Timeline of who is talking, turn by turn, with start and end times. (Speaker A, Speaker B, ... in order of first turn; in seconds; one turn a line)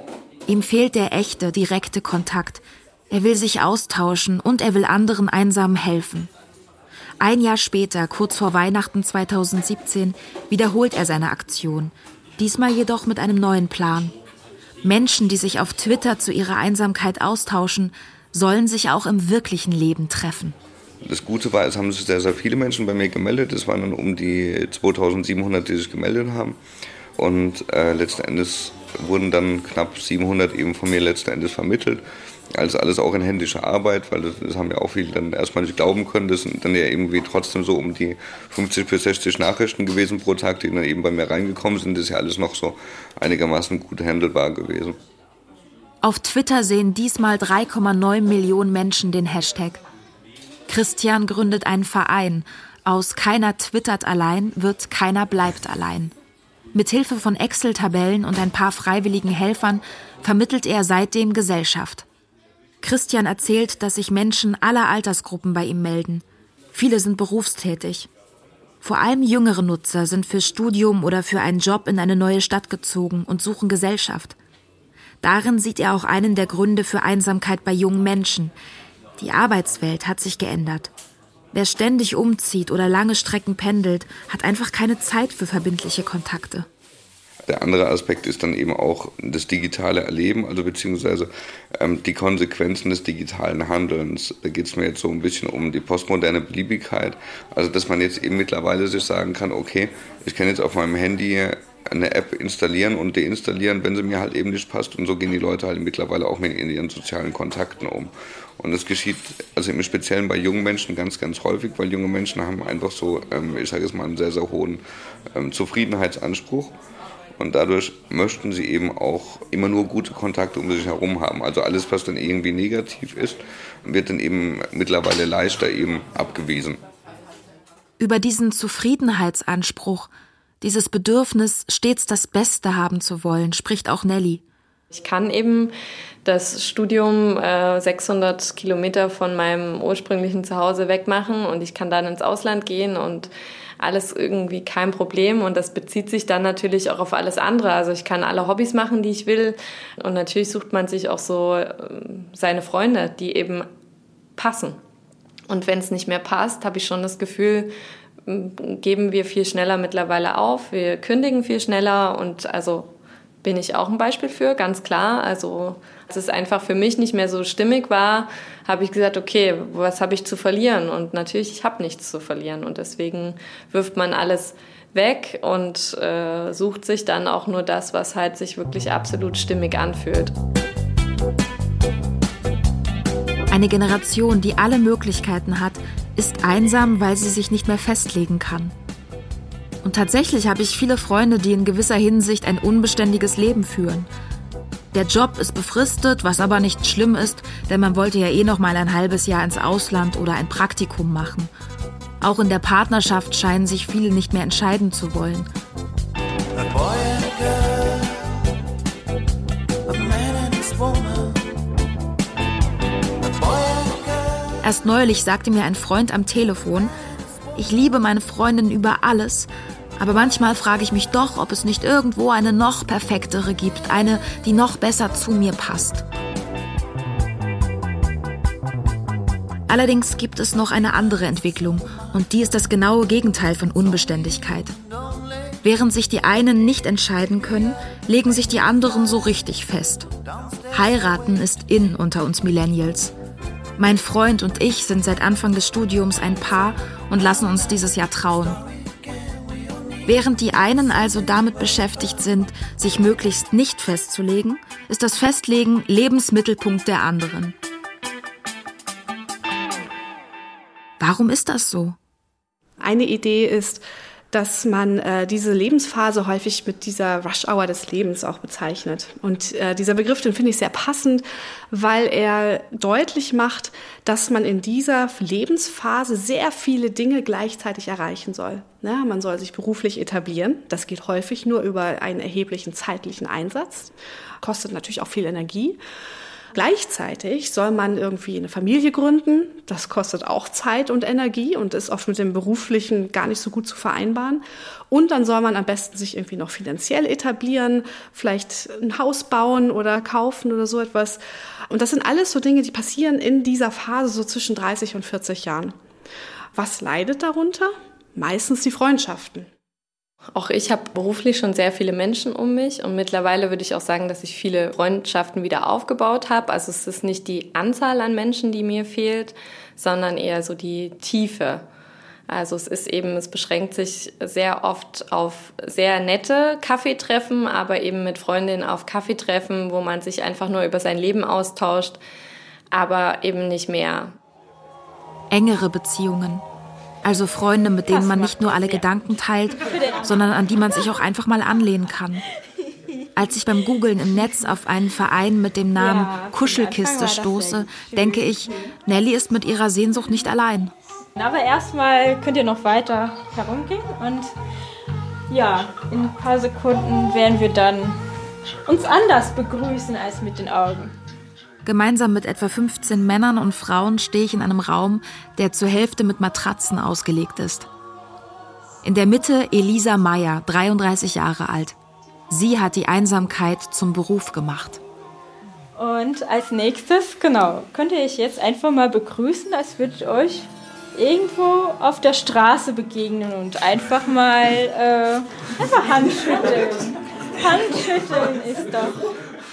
Speaker A: 0.5-6.3
Speaker A: 7.2-14.2
Speaker A: 14.8-20.6
Speaker B: 21.0-26.6
Speaker B: 27.2-32.0
Speaker B: 32.5-45.0
Speaker A: 46.0-49.8
Speaker A: 50.7-56.1
Speaker A: 56.7-62.1
Speaker A: 62.8-68.1
Speaker A: 68.8-74.4
Speaker A: 75.2-78.5
Speaker A: 79.2-80.9
Speaker A: 81.5-86.7
Speaker B: 87.5-114.8
Speaker B: 115.3-116.7
Speaker B: 117.4-126.8
Speaker A: 128.0-130.1
Speaker A: 130.6-134.4
Speaker C: 134.9-135.7
Speaker C: 136.2-153.7
Speaker C: 154.4-154.8
Speaker C: 155.5-157.7
Speaker C: 158.3-180.3
Speaker A: 183.5-188.8
Speaker A: 189.8-194.1
Speaker A: 194.9-201.5
Speaker A: 202.2-205.5
Speaker A: 214.6-216.9
Speaker A: 217.6-226.1
Speaker A: 229.7-234.8
Speaker A: 235.6-240.1
Speaker A: 240.7-243.1
Speaker A: 243.8-248.6
Speaker A: 250.1-257.6
Speaker A: 261.0-262.0
Speaker D: 262.8-263.8
Speaker D: 264.3-285.8
Speaker D: 286.5-305.8
Speaker D: 306.6-309.5
Speaker C: 310.4-321.6
Speaker C: 322.3-332.0
Speaker C: 332.7-334.2
Speaker A: 335.3-336.4
Speaker A: 337.0-342.2
Speaker E: 337.9-338.9
Speaker E: 339.7-340.2
Speaker A: 343.1-350.8
Speaker E: 345.8-348.7
Speaker E: 351.1-354.4
Speaker E: 355.3-358.0
Speaker E: 358.7-360.9
Speaker A: 361.6-367.7
Speaker A: 368.8-371.8
Speaker A: 372.3-374.8
Speaker E: 375.8-389.0